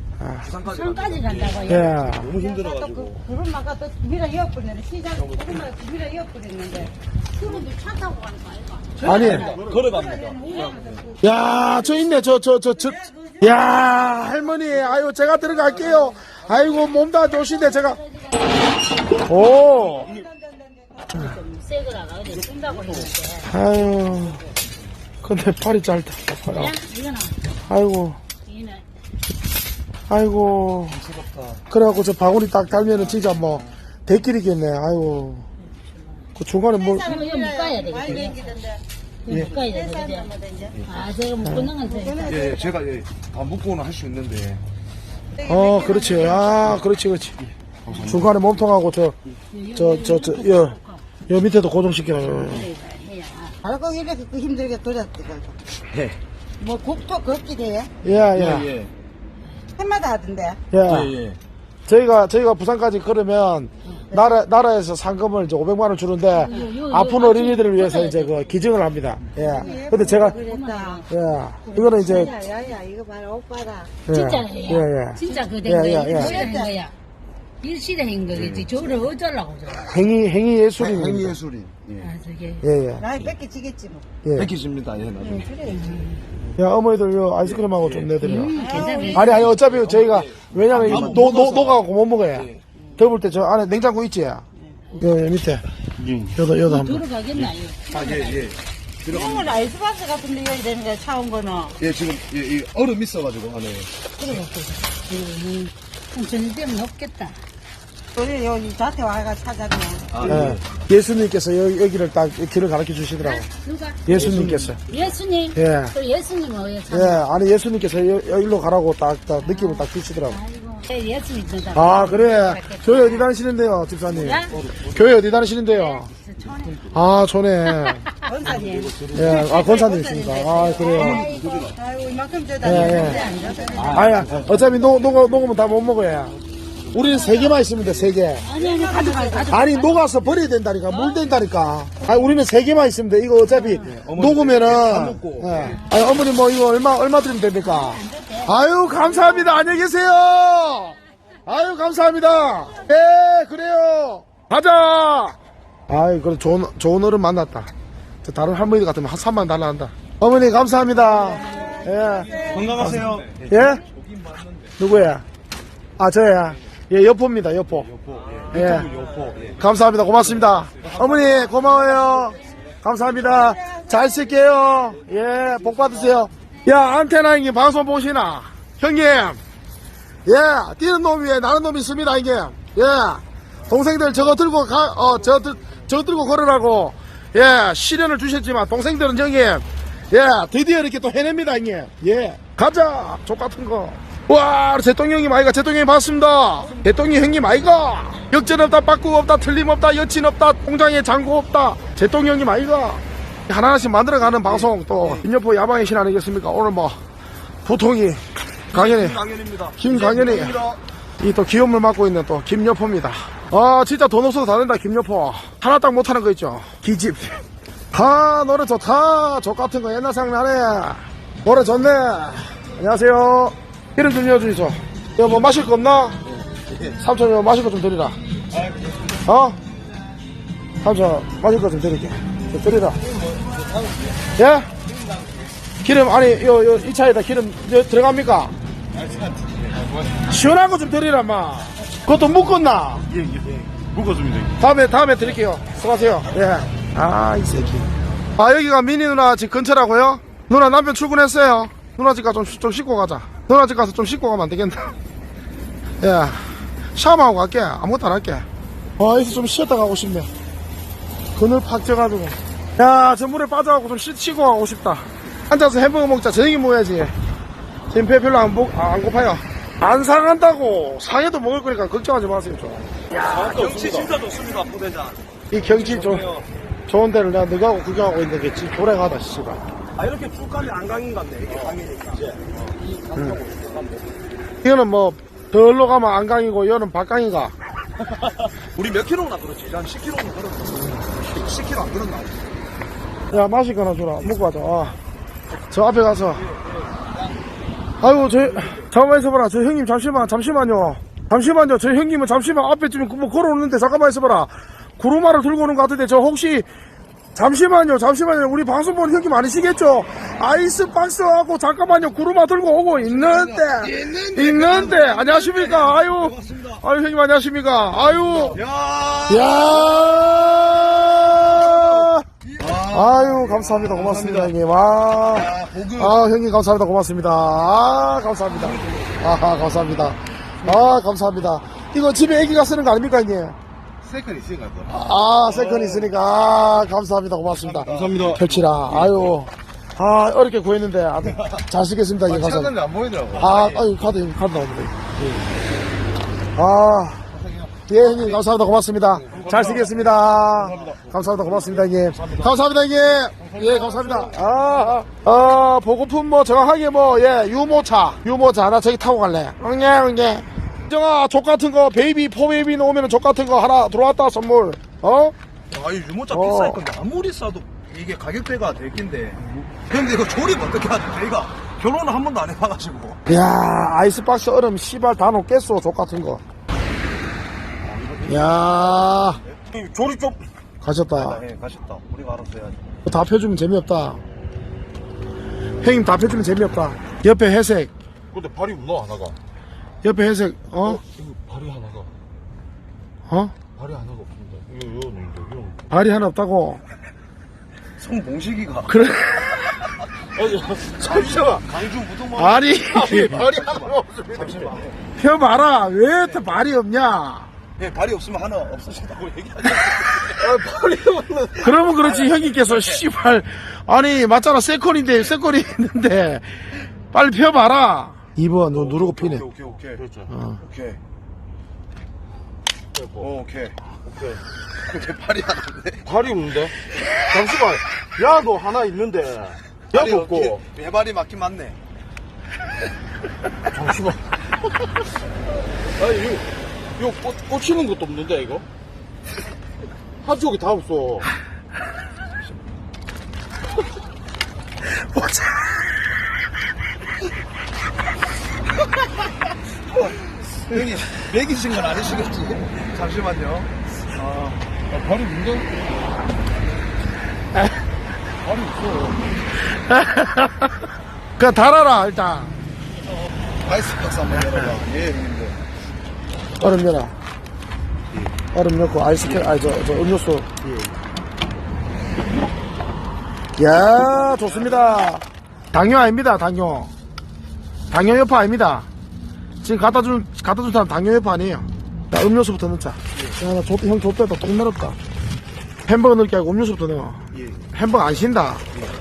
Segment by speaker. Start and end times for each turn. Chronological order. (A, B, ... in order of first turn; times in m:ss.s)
0:00.2-0:00.5 A
0:00.4-0:03.2 B
0:00.7-0:01.9 C
0:01.6-0:02.3 A
0:02.2-0:11.2 D
0:05.2-0:05.6 B
0:07.4-0:09.6 C
0:09.0-0:09.5 A
0:09.0-0:11.0 B
0:09.4-0:09.8 E
0:11.2-0:18.0 A
0:12.8-0:14.3 D
0:17.4-0:18.5 C
0:19.2-0:20.2 A
0:19.7-0:21.3 D
0:21.1-0:23.5 C
0:23.4-0:24.4 A
0:25.2-0:26.7 A
0:26.5-0:27.4 C
0:27.7-0:28.2 A
0:28.4-0:28.8 C
0:30.1-0:31.0 A
0:30.9-0:31.6 B
0:31.7-0:35.5 A
0:36.4-0:37.2 A
0:36.7-0:40.8 D
0:37.0-0:38.6 C
0:39.2-0:40.3 C
0:40.7-0:41.0 B
0:40.8-0:42.4 C
0:41.4-0:41.7 A
0:41.8-0:42.7 D
0:42.3-0:44.6 B
0:45.3-0:46.8 D
0:45.4-0:47.4 A
0:47.8-0:48.2 B
0:48.0-0:49.2 A
0:49.5-0:51.0 C
0:49.7-0:50.8 A
0:51.3-0:52.7 A
0:52.4-0:53.6 C
0:53.6-0:55.6 D
0:56.6-0:57.9 D
0:58.0-0:58.7 A
0:58.4-0:58.9 E
0:59.7-1:00.6 D
1:00.7-1:01.2 A
1:00.9-1:01.4 E
1:01.9-1:10.4 A
1:04.1-1:04.4 D
1:06.4-1:08.3 C
1:09.4-1:11.1 D
1:09.8-1:11.1 C
1:11.1-1:12.3 A
1:11.6-1:14.0 D
1:12.0-1:12.3 C
1:14.0-1:16.4 A
1:14.1-1:16.9 C
1:16.1-1:16.7 D
1:17.6-1:19.9 C
1:18.3-1:18.7 B
1:19.8-1:21.4 A
1:20.8-1:22.1 B
1:22.0-1:22.6 C
1:22.6-1:23.0 A
1:23.0-1:24.0 D
1:24.2-1:24.5 A
1:24.4-1:25.5 B
1:25.2-1:26.1 D
1:25.7-1:26.2 C
1:26.6-1:34.4 A
1:27.4-1:28.2 B
1:28.2-1:29.4 C
1:28.5-1:29.3 D
1:29.4-1:32.6 B
1:30.7-1:31.4 C
1:34.6-1:35.0 D
1:35.0-1:35.6 A
1:36.0-1:36.4 E
1:36.3-1:37.0 A
1:36.6-1:38.4 C
1:37.9-1:39.6 B
1:39.0-1:41.8 D
1:41.8-1:43.9 B
1:44.2-1:47.4 C
1:48.1-1:50.1 D
1:50.1-1:50.6 B
1:50.2-1:53.4 A
1:53.2-1:54.0 C
1:54.0-1:54.8 A
1:54.1-1:54.6 E
1:54.9-1:57.2 C
1:55.5-1:55.9 A
1:56.9-2:00.4 A
1:59.4-2:03.2 C
2:01.7-2:06.1 A
2:04.1-2:04.6 C
2:05.7-2:06.7 C
2:06.4-2:06.8 D
2:06.9-2:08.0 A
2:07.7-2:08.3 C
2:08.2-2:14.2 D
2:08.6-2:09.2 E
2:09.1-2:11.3 A
2:10.8-2:11.6 C
2:12.6-2:13.2 A
2:12.7-2:14.1 C
2:13.8-2:14.5 B
2:13.9-2:16.4 A
2:16.9-2:18.5 A
2:17.0-2:17.6 C
2:18.4-2:20.0 C
2:18.6-2:19.6 D
2:19.5-2:35.4 A
2:20.9-2:21.2 C
2:23.5-2:23.9 C
2:23.8-2:25.8 B
2:25.6-2:26.1 C
2:27.7-2:28.5 C
2:28.9-2:29.6 B
2:35.9-2:37.7 A
2:38.2-2:43.8 A
2:41.2-2:42.6 D
2:42.3-2:44.8 B
2:44.8-2:45.2 A
2:46.0-2:47.9 A
2:47.8-2:49.6 B
2:48.5-2:48.9 A
2:49.5-2:59.4 A
2:51.1-2:51.6 B
2:53.0-2:54.5 D
3:00.2-3:27.0 A
3:24.2-3:25.3 B
3:27.6-3:29.2 A
3:28.7-3:30.8 B
3:29.8-3:30.6 A
3:31.2-3:37.4 A
3:37.9-3:46.2 A
3:46.9-3:48.2 A
3:49.2-3:49.6 A
3:50.8-3:53.0 A
3:54.3-3:54.7 A
3:55.8-3:58.5 A
3:58.9-4:00.1 E
4:00.3-4:03.1 A
4:03.1-4:04.6 E
4:04.6-4:15.0 A
4:16.0-4:18.4 A
4:19.0-4:20.3 A
4:21.3-4:27.1 A
4:27.9-4:34.0 A
4:33.1-4:36.5 B
4:35.5-4:36.3 A
4:36.9-4:39.6 A
4:40.0-4:43.7 B
4:43.4-4:43.9 E
4:44.6-4:47.5 A
4:48.1-4:52.4 B
4:53.3-4:55.0 A
4:55.7-4:56.5 A
4:58.0-5:06.7 A
5:07.3-5:18.6 A
5:13.0-5:16.8 B
5:18.3-5:24.5 B
5:19.3-5:22.2 A
5:22.9-5:33.6 A
5:25.2-5:26.2 B
5:34.0-5:34.9 E
5:34.9-5:42.7 A
5:37.7-5:39.2 E
5:42.3-5:43.8 E
5:43.3-5:45.1 A
5:46.5-5:47.2 A
5:47.4-5:48.0 E
5:47.9-6:05.3 A
5:49.2-5:52.5 E
5:53.3-5:55.0 E
6:05.7-6:13.2 B
6:06.3-6:06.8 A
6:13.3-6:16.4 A
6:17.8-6:20.1 B
6:18.3-6:20.2 A
6:20.8-6:21.4 A
6:21.1-6:22.8 B
6:23.0-6:24.2 A
6:25.8-6:27.9 A
6:28.3-6:29.4 E
6:30.0-6:31.0 A
6:31.0-6:32.1 E
6:33.3-6:33.5 A
6:33.8-6:35.9 E
6:35.9-6:36.8 A
6:38.0-6:39.1 B
6:38.9-6:39.6 A
6:39.6-6:40.0 B
6:40.4-6:41.6 E
6:41.0-6:44.9 B
6:42.4-6:43.4 A
6:43.0-6:44.8 E
6:45.2-6:47.5 A
6:46.2-6:46.5 B
6:47.8-6:50.8 B
6:50.4-6:51.8 E
6:51.6-6:59.4 A
6:52.0-6:53.0 B
6:58.7-7:00.0 B
7:00.0-7:00.3 E
7:00.3-7:00.6 A
7:00.6-7:01.0 B
7:02.9-7:03.3 E
7:03.2-7:03.8 B
7:04.1-7:04.4 E
7:04.8-7:06.1 B
7:06.0-7:06.7 E
7:07.3-7:10.6 E
7:09.9-7:11.8 B
7:13.7-7:14.2 E
7:16.0-7:16.4 E
7:17.0-7:18.6 E
7:20.2-7:21.2 E
7:25.1-7:25.7 A
7:30.7-7:33.7 B
7:30.7-7:31.2 E
7:31.9-7:32.2 E
7:34.2-7:35.7 E
7:38.4-7:39.3 E
7:39.7-7:40.7 A
7:41.4-7:42.6 A
7:43.6-7:45.6 E
7:46.6-7:47.1 A
7:48.5-7:50.5 A
7:53.6-7:56.9 A
7:57.9-7:58.9 A
7:59.6-8:05.0 A
8:05.8-8:08.6 A